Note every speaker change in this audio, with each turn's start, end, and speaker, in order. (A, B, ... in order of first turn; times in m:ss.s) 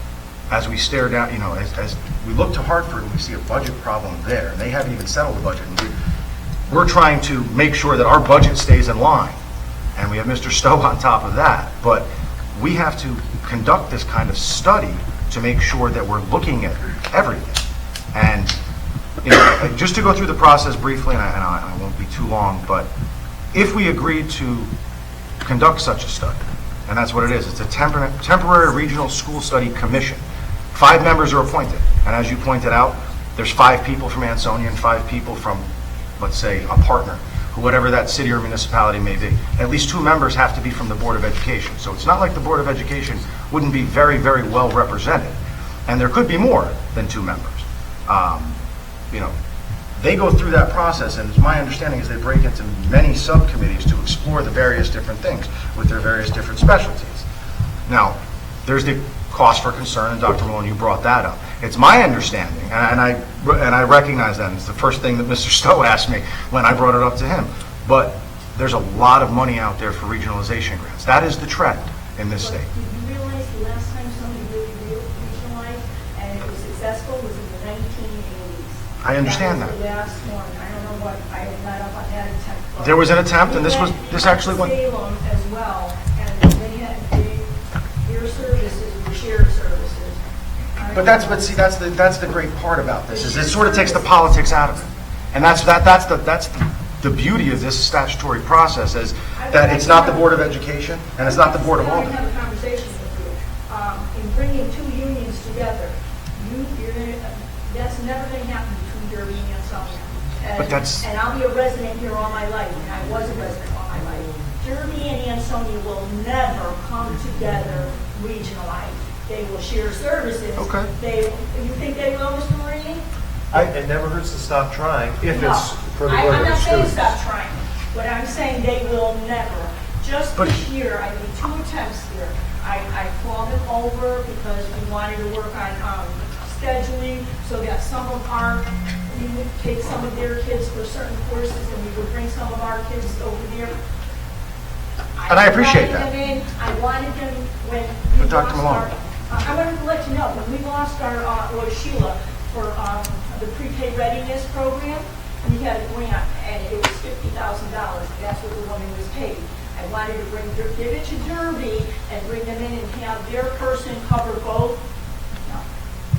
0:00.5-0:05.9 A
0:06.7-0:09.4 A
0:10.0-0:17.6 A
0:18.1-0:18.6 A
0:19.2-0:22.9 A
0:23.5-0:24.7 A
0:25.4-0:30.2 A
0:30.7-0:35.7 A
0:36.2-0:45.3 A
0:45.9-0:48.6 A
0:50.0-0:57.3 A
0:57.9-1:12.7 A
1:12.4-1:27.5 B
1:19.0-1:19.8 A
1:22.8-1:24.7 A
1:28.0-1:30.2 B
1:30.8-1:31.5 B
1:30.9-1:42.1 A
1:33.1-1:34.2 B
1:39.3-1:40.6 B
1:41.2-2:03.0 B
1:50.6-1:51.1 A
2:00.6-2:00.9 A
2:03.5-2:07.1 C
2:05.3-2:23.8 B
2:25.2-2:44.8 B
2:25.3-2:26.1 A
2:28.2-2:28.9 A